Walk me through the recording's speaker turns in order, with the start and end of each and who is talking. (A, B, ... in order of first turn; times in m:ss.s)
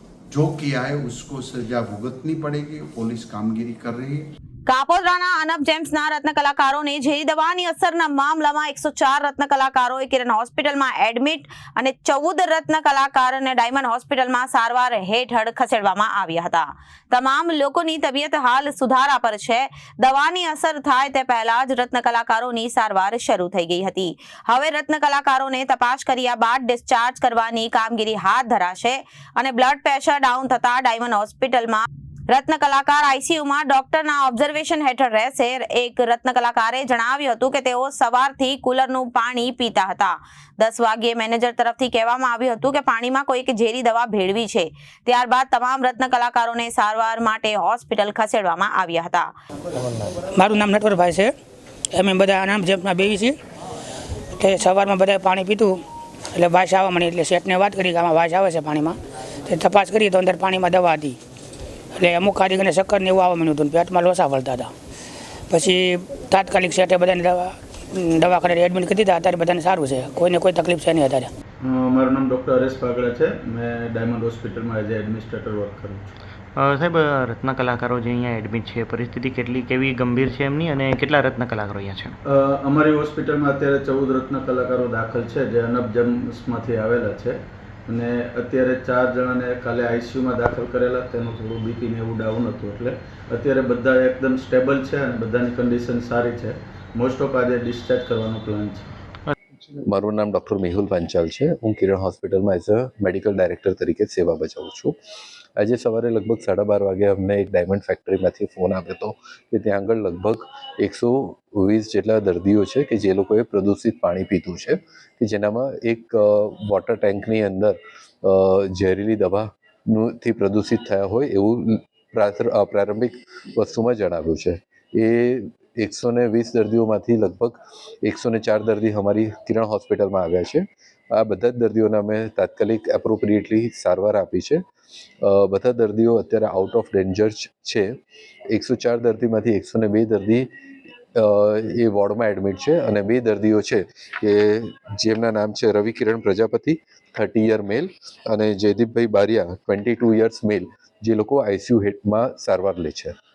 0:00.3-0:04.3 A
0:04.7-0:49.3 B
0:50.3-0:51.3 C
0:51.9-0:53.4 C
0:54.4-0:55.8 C
0:56.3-1:01.2 C
1:02.0-1:04.7 C
1:05.5-1:11.3 C
1:11.6-1:16.0 D
1:16.6-1:22.1 E
1:22.2-1:38.9 D
1:39.8-1:44.9 F
1:45.6-2:14.6 F
2:15.2-2:18.0 F
2:18.5-2:20.5 F
2:21.1-2:33.2 F